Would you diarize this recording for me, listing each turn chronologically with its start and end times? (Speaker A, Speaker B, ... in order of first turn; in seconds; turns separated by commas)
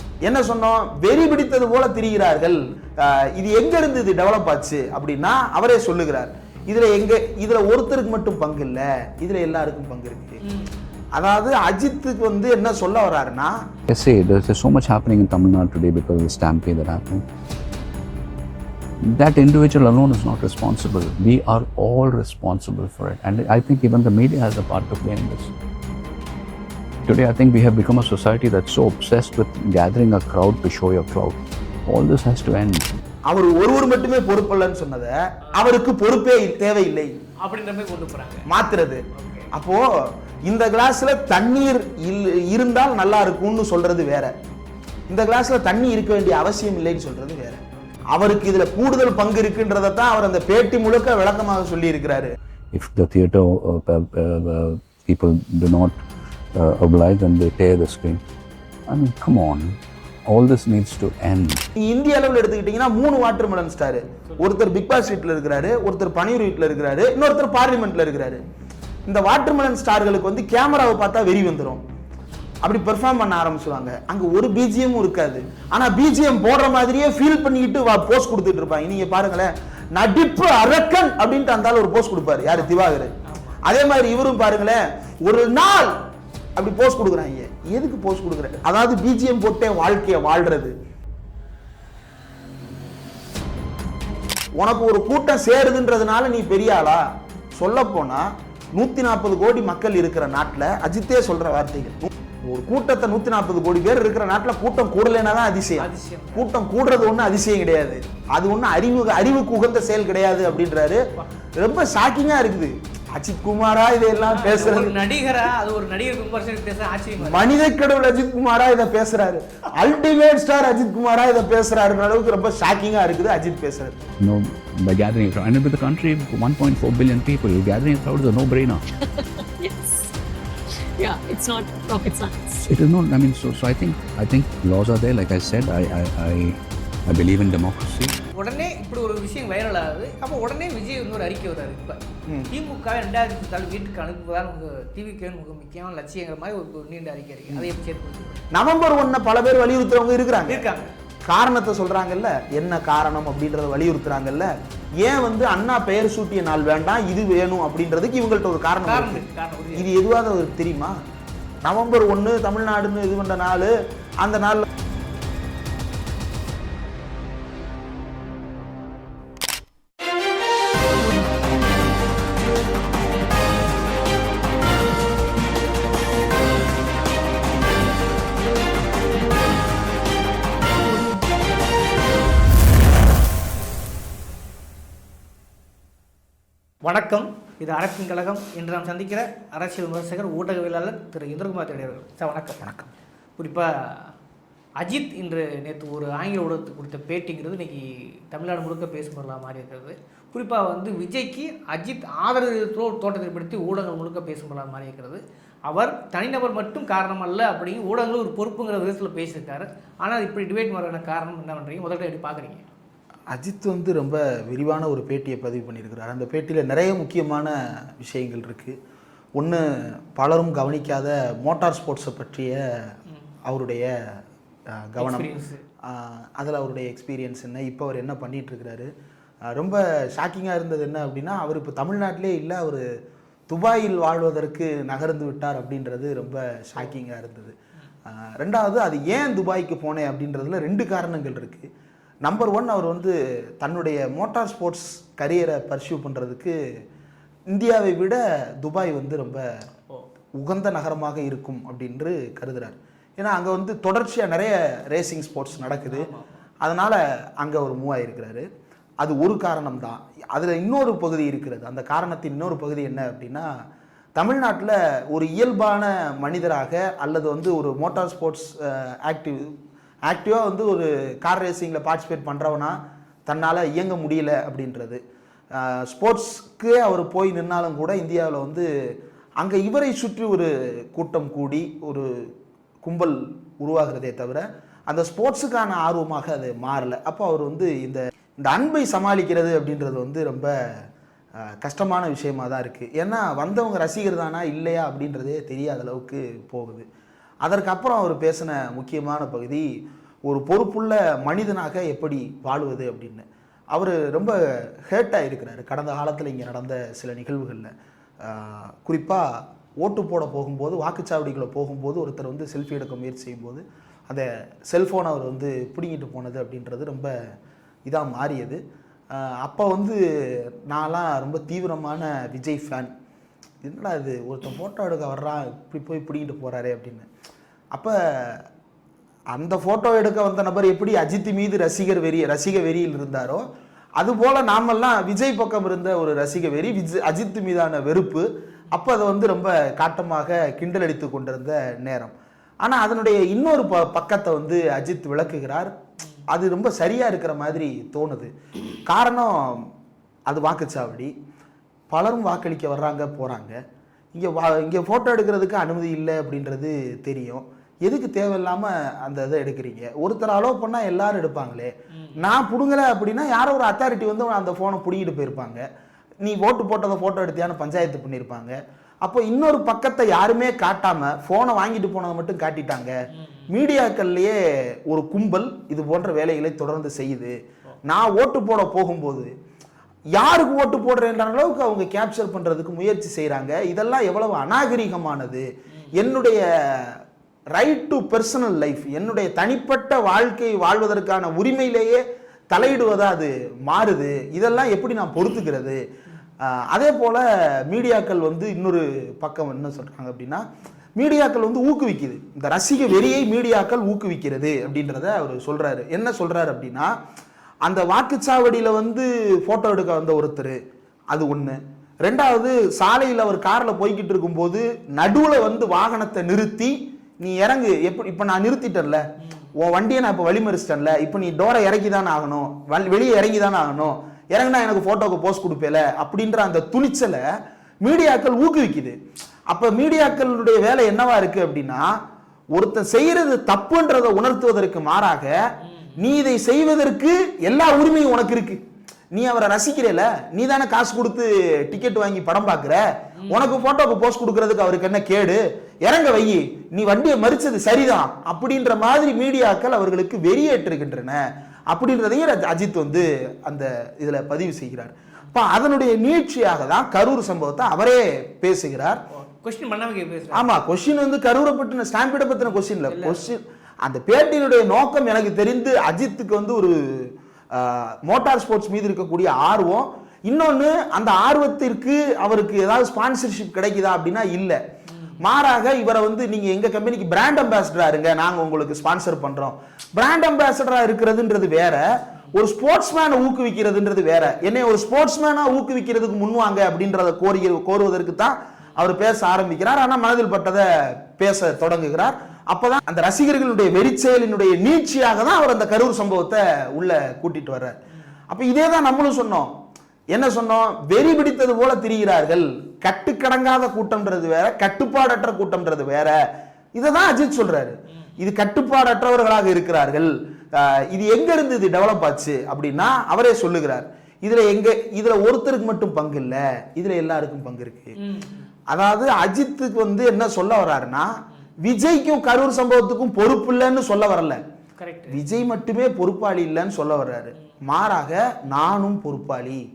Speaker A: 0.2-10.4, Speaker B: 10.4-10.8, Speaker A: 11.1-13.7, Speaker C: 13.9-17.2, Speaker C: 19.0-25.5, Speaker C: 27.0-32.8, Speaker A: 33.3-37.1, Speaker B: 37.4-38.5, Speaker A: 38.5-44.3, Speaker B: 39.1-39.5, Speaker A: 45.1-52.3, Speaker C: 52.7-56.0, Speaker C: 56.5-58.2, Speaker C: 58.9-61.6, Speaker A: 61.8-68.4, Speaker A: 69.1-71.8, Speaker A: 72.6-86.0, Speaker B: 83.2-83.6, Speaker A: 86.6-90.7, Speaker A: 94.6-111.0, Speaker B: 105.8-106.5, Speaker A: 111.6-114.9, Speaker B: 114.3-117.5, Speaker A: 117.2-124.0, Speaker C: 124.2-128.8, Speaker D: 129.0-130.1, Speaker D: 130.7-132.6, Speaker C: 132.6-138.1, Speaker B: 138.3-142.0, Speaker A: 142.3-142.5, Speaker B: 142.5-148.4, Speaker A: 148.5-150.6, Speaker B: 150.5-150.9, Speaker A: 151.2-159.2, Speaker B: 158.8-159.9, Speaker A: 159.8-160.9, Speaker A: 161.6-164.6, Speaker B: 186.8-192.6, Speaker A: 192.6-192.9, Speaker B: 193.4-194.1, Speaker B: 194.8-212.6, Speaker A: 213.3-218.8, Speaker A: 219.4-222.6, Speaker A: 223.4-223.9, Speaker A: 224.7-225.3, Speaker B: 225.0-225.6, Speaker A: 225.8-228.9, Speaker A: 229.5-232.8, Speaker A: 233.5-237.5, Speaker A: 238.1-241.7, Speaker A: 242.2-246.6, Speaker A: 247.5-249.5, Speaker A: 250.4-256.1, Speaker B: 255.7-256.4, Speaker A: 256.6-258.4, Speaker A: 259.0-263.5, Speaker A: 264.2-269.5, Speaker A: 270.1-275.0, Speaker A: 275.5-278.7, Speaker A: 279.4-282.1, Speaker A: 282.8-290.5, Speaker A: 291.6-296.8, Speaker A: 297.4-299.7, Speaker A: 300.2-317.1, Speaker A: 317.9-318.6, Speaker A: 319.1-320.0, Speaker A: 320.7-322.9, Speaker A: 323.6-327.1, Speaker A: 327.7-328.4, Speaker A: 329.3-333.5, Speaker A: 334.0-345.7, Speaker A: 346.3-348.3, Speaker A: 348.9-349.7, Speaker A: 350.3-351.1, Speaker A: 351.9-353.6, Speaker A: 354.1-365.6, Speaker A: 366.2-372.9, Speaker B: 373.1-373.5, Speaker A: 373.5-379.3, Speaker A: 380.1-387.0, Speaker A: 387.5-395.8, Speaker A: 396.4-400.4, Speaker A: 401.0-406.9, Speaker A: 407.6-410.6, Speaker A: 411.1-427.3, Speaker B: 419.2-419.5, Speaker A: 427.8-428.9, Speaker A: 429.5-431.9, Speaker A: 432.5-435.4, Speaker B: 435.6-436.0, Speaker A: 436.0-438.6, Speaker A: 439.1-459.0, Speaker B: 443.2-443.6, Speaker B: 459.1-460.5, Speaker A: 460.3-474.6, Speaker B: 462.5-463.3, Speaker B: 474.9-475.2, Speaker A: 475.2-497.8, Speaker A: 498.3-499.5, Speaker A: 500.1-506.1, Speaker A: 506.7-518.0, Speaker B: 518.0-518.5, Speaker A: 518.7-524.4, Speaker B: 524.8-525.2, Speaker A: 525.1-529.6